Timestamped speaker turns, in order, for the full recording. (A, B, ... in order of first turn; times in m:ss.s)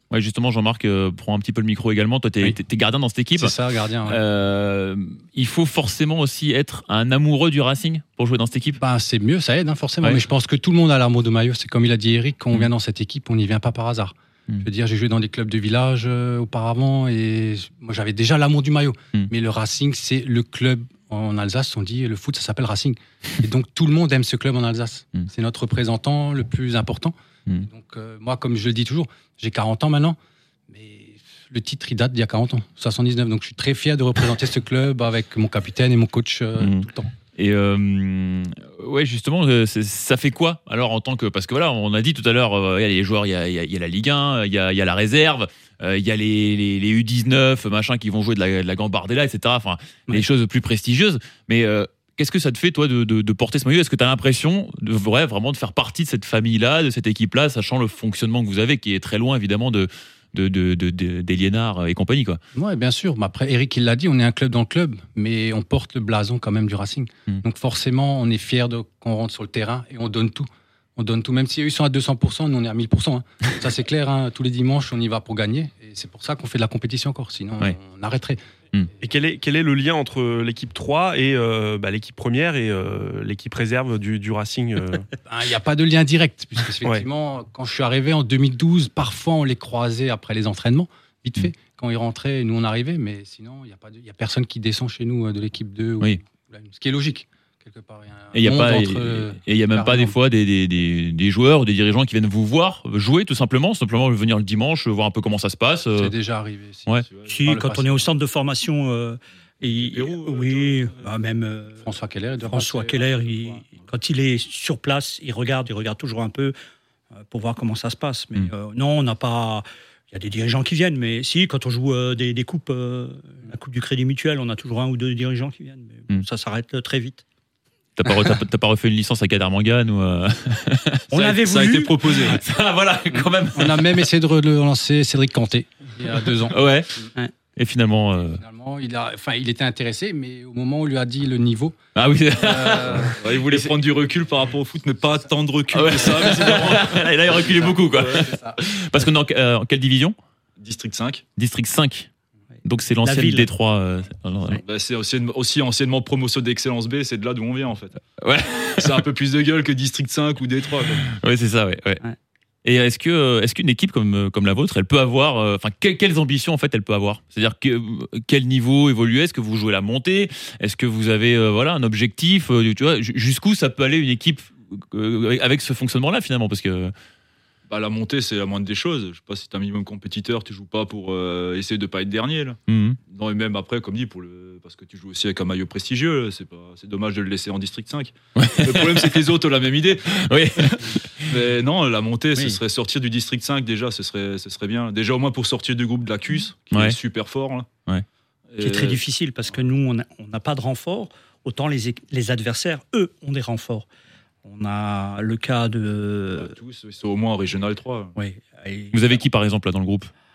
0:00.1-0:08.8 A
0:03.4-0:04.2 B
0:08.8-0:30.2 B
0:30.7-0:37.1 B
0:36.6-1:02.4 A
1:02.6-1:18.4 B
1:19.0-1:25.1 C
1:25.3-1:40.2 B
1:38.3-1:46.1 A
1:46.0-1:48.1 B
1:47.3-1:51.9 D
1:49.6-1:51.1 E
1:51.8-1:53.6 B
1:52.4-1:56.6 D
1:57.2-2:07.2 D
2:08.0-2:11.0 A
2:11.1-2:12.3 D
2:11.1-2:12.4 E
2:12.3-2:14.1 A
2:13.1-2:17.1 B
2:16.5-2:17.0 A
2:17.6-2:18.4 A
2:18.2-2:21.8 B
2:22.0-2:23.6 A
2:22.3-2:23.6 B
2:23.1-2:27.7 E
2:25.7-2:30.2 A
2:26.2-2:28.6 B
2:30.6-2:31.2 E
2:31.4-2:32.1 A
2:32.6-2:34.6 A
2:33.0-2:33.5 D
2:34.6-2:38.0 E
2:38.2-2:39.0 A
2:38.8-2:41.1 E
2:41.1-2:42.0 A
2:42.6-2:56.9 A
2:57.7-3:10.2 E
3:02.7-3:03.0 A
3:08.4-3:09.2 A
3:10.2-3:11.4 A
3:10.8-3:17.7 E
3:16.7-3:17.0 A
3:18.5-3:19.0 E
3:18.6-3:23.9 D
3:24.4-3:26.6 D
3:26.4-3:28.2 E
3:28.2-3:29.2 D
3:28.9-3:30.1 A